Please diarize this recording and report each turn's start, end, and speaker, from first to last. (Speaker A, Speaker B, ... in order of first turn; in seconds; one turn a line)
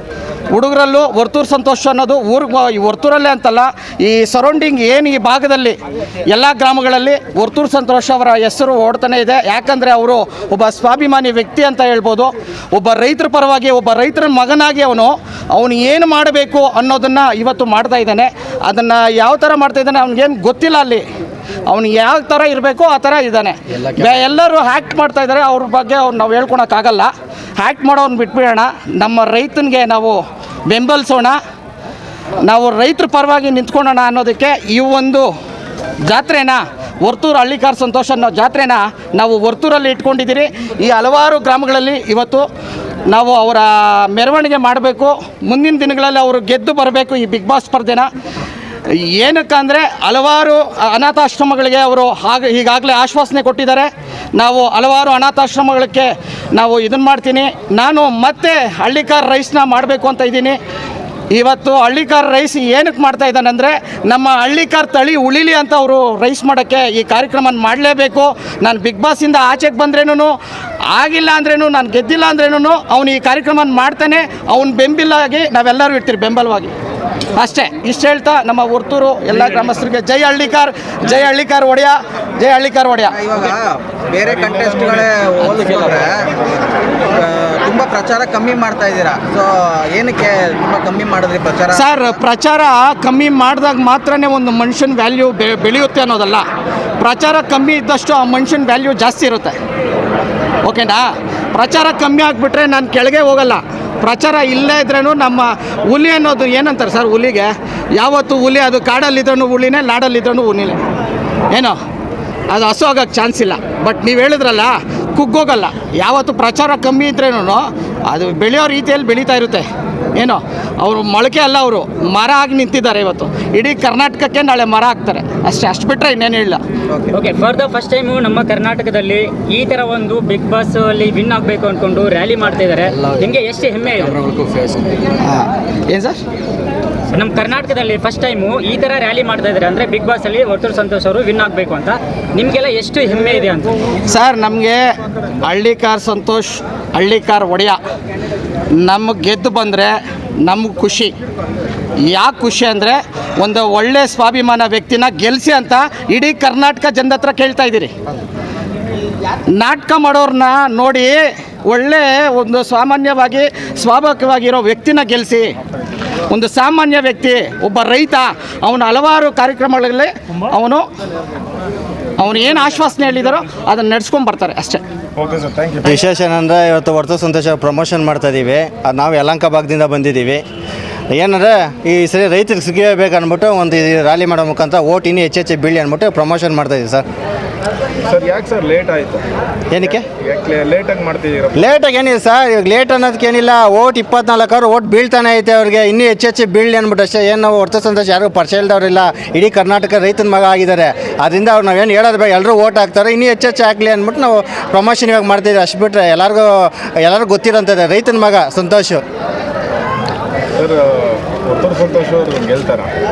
Speaker A: 0.5-21.1
Speaker A: 21.7-31.4
Speaker A: 32.4-35.3
Speaker A: 36.0-42.5
Speaker A: 43.1-48.1
Speaker A: 48.9-60.6
Speaker A: 61.3-76.7
Speaker A: 77.3-83.2
Speaker B: 83.1-91.9
Speaker A: 91.7-96.5
Speaker A: 97.0-99.5
Speaker A: 100.7-110.8
Speaker A: 111.5-111.8
Speaker A: 112.5-126.6
Speaker C: 127.1-134.3
Speaker B: 134.1-134.8
Speaker A: 135.2-136.2
Speaker C: 137.1-143.7
Speaker A: 144.1-144.9
Speaker A: 145.4-147.8
Speaker A: 148.8-151.1
Speaker A: 152.0-157.9
Speaker A: 159.5-165.5
Speaker A: 166.3-170.9
Speaker A: 172.2-174.8
Speaker D: 175.2-175.9
Speaker E: 175.8-180.4
Speaker E: 181.1-187.1
Speaker D: 188.1-189.2
Speaker E: 189.7-190.1
Speaker D: 189.9-191.6
Speaker E: 191.6-209.0
Speaker D: 210.6-212.9